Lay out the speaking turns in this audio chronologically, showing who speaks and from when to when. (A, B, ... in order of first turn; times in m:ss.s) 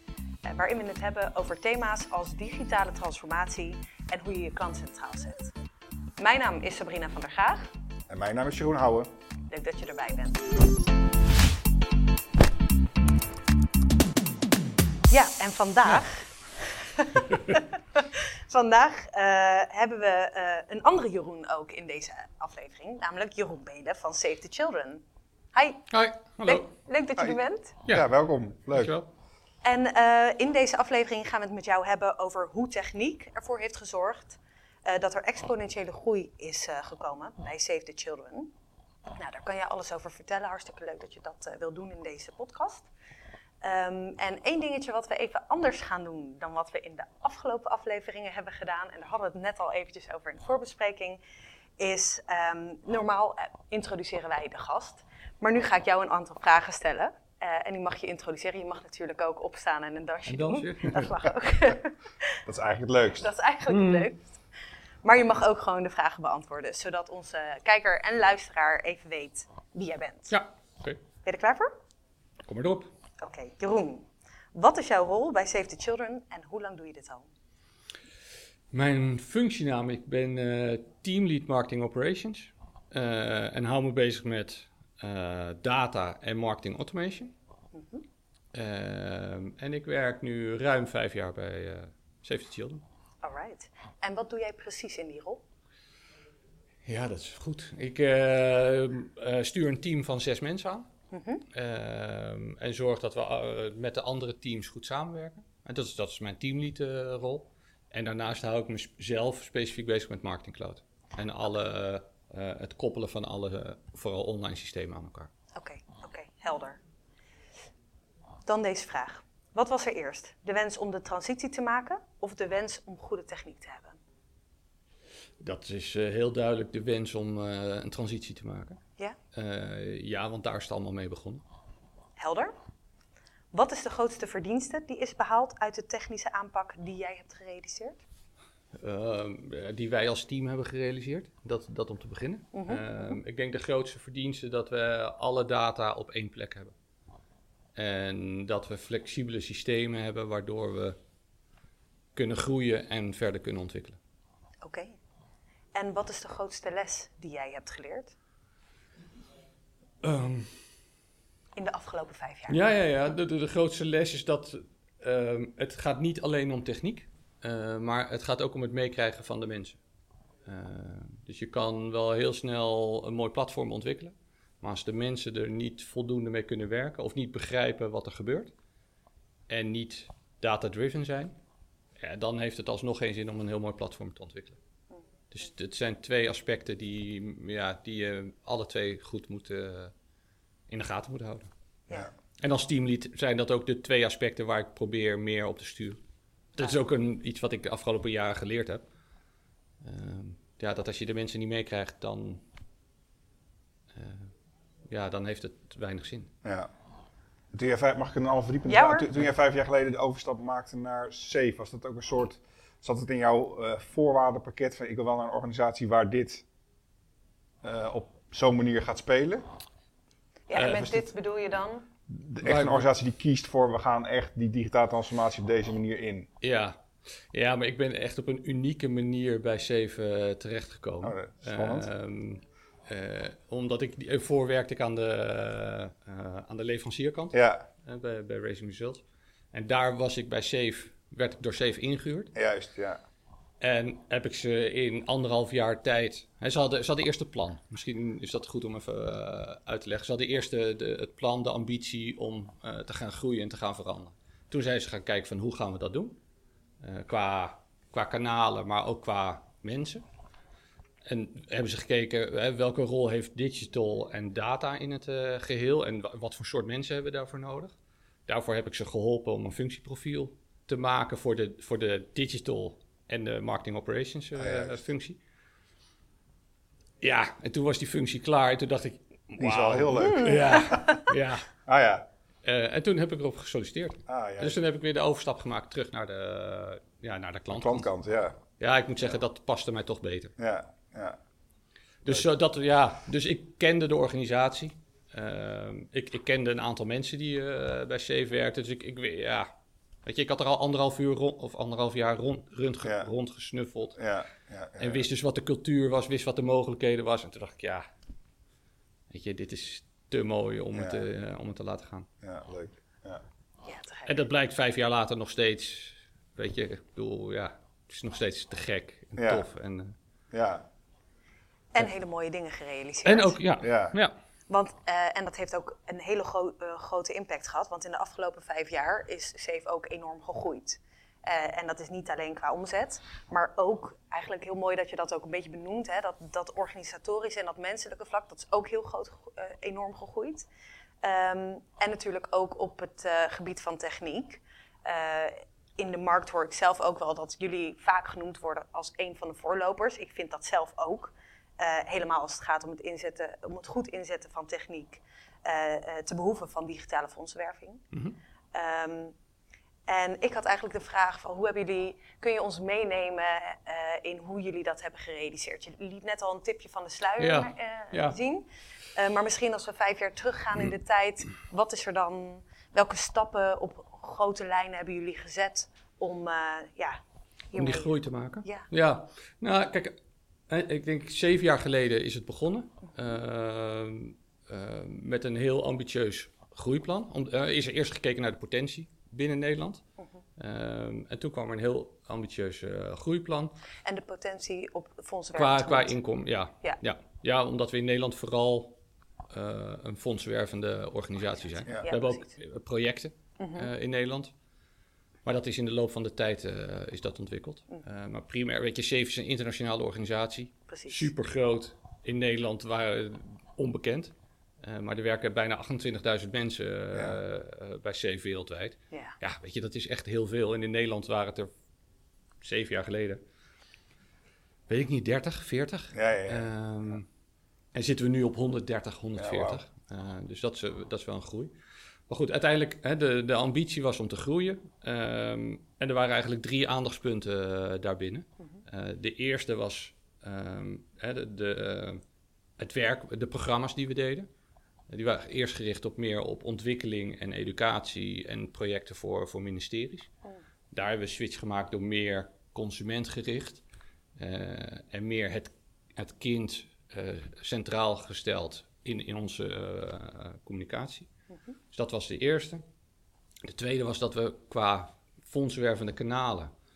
0:00.4-0:05.5 A
0:06.2-0:07.7 A
0:08.1-0:09.1 B
0:09.5-0:10.5 A
0:15.1-0:25.0 A
0:25.5-0:25.9 A
0:25.9-0:26.7 C
0:26.4-0:27.8 A
0:27.8-0:28.1 C
0:27.9-0:28.9 B
0:28.7-0:29.1 C
0:29.6-0:38.5 A
0:39.2-0:42.9 A
0:43.6-0:51.2 A
0:51.8-1:02.4 A
1:00.3-1:01.1 C
1:02.4-1:03.3 B
1:03.2-1:04.4 A
1:03.7-1:04.1 C
1:05.0-1:10.4 A
1:10.3-1:11.0 C
1:11.2-1:11.7 A
1:12.5-1:12.9 C
1:13.2-1:17.3 A
1:18.7-1:27.3 C
1:27.7-1:28.0 A
1:28.5-1:32.8 C
1:33.2-1:35.4 A
1:36.8-1:40.9 C
1:41.1-1:41.5 A
1:41.5-1:55.3 C
1:55.6-1:56.8 A
1:58.5-2:04.0 A
2:05.4-2:08.8 C
2:09.3-2:11.4 C
2:12.2-2:12.5 A
2:13.5-2:18.0 A
2:18.8-2:26.7 C
2:22.5-2:23.2 A
2:27.8-2:31.0 C
2:32.2-2:34.0 C
2:34.6-2:35.0 A
2:35.8-2:38.2 A
2:40.0-2:40.7 C
2:41.6-2:42.6 A
2:42.5-2:49.8 C
2:50.4-2:58.5 C
2:59.5-3:01.4 C
3:02.0-3:04.6 C
3:05.3-3:09.9 C
3:10.7-3:11.5 C
3:12.4-3:16.0 C
3:16.6-3:18.9 C
3:19.8-3:22.4 C
3:23.9-3:24.3 C
3:24.9-3:26.3 C
3:26.4-3:26.7 B
3:27.5-3:36.4 B
3:28.7-3:29.1 A
3:37.6-3:39.4 B
3:40.5-3:41.9 A
3:40.5-3:41.1 C
3:42.1-3:46.3 B
3:42.4-3:42.9 C
3:46.4-4:02.3 C
3:51.0-3:51.9 B
3:57.3-3:57.6 B
4:02.3-4:03.0 B
4:03.6-4:16.2 C
4:16.8-4:20.0 C
4:21.0-4:27.8 C
4:28.3-4:35.2 C
4:34.4-4:34.8 B
4:37.0-4:41.5 C
4:39.4-4:41.0 B
4:40.0-4:41.1 A
4:41.6-4:42.1 B
4:42.4-4:47.9 C
4:44.1-4:44.6 B
4:47.5-4:48.4 B
4:48.6-4:50.4 C
4:50.4-4:51.2 B
4:52.0-4:59.5 C
5:00.0-5:04.0 C
5:02.8-5:03.1 B
5:04.0-5:05.1 B
5:04.8-5:07.8 C
5:09.1-5:12.1 C
5:10.7-5:11.0 B
5:12.2-5:13.2 B
5:13.6-5:14.2 A
5:14.1-5:20.0 C
5:19.2-5:19.5 B
5:20.3-5:20.7 B
5:21.7-5:23.4 A
5:23.0-5:24.1 C
5:23.6-5:24.0 B
5:24.5-5:40.5 A
5:41.0-5:57.8 A
5:58.5-5:59.2 A
5:59.9-6:17.0 A
6:07.2-6:08.2 C
6:17.5-6:17.9 A
6:17.6-6:20.0 C
6:18.4-6:18.7 A
6:20.5-6:29.8 C
6:30.4-6:33.6 C
6:33.8-6:36.0 A
6:35.4-6:38.8 C
6:39.3-6:44.3 C
6:41.7-6:42.3 A
6:43.4-6:43.7 A
6:45.2-7:01.5 C
6:50.7-6:51.1 A
6:56.9-6:57.2 B
6:58.9-6:59.2 A
7:02.4-7:03.2 C
7:04.7-7:07.1 C
7:05.9-7:06.5 B
7:07.7-7:11.5 C
7:09.2-7:09.6 B
7:12.1-7:22.0 C
7:22.6-7:24.3 C
7:24.9-7:30.1 C
7:30.7-7:33.6 C
7:34.2-7:41.1 C
7:41.7-7:42.6 C
7:43.4-7:46.5 C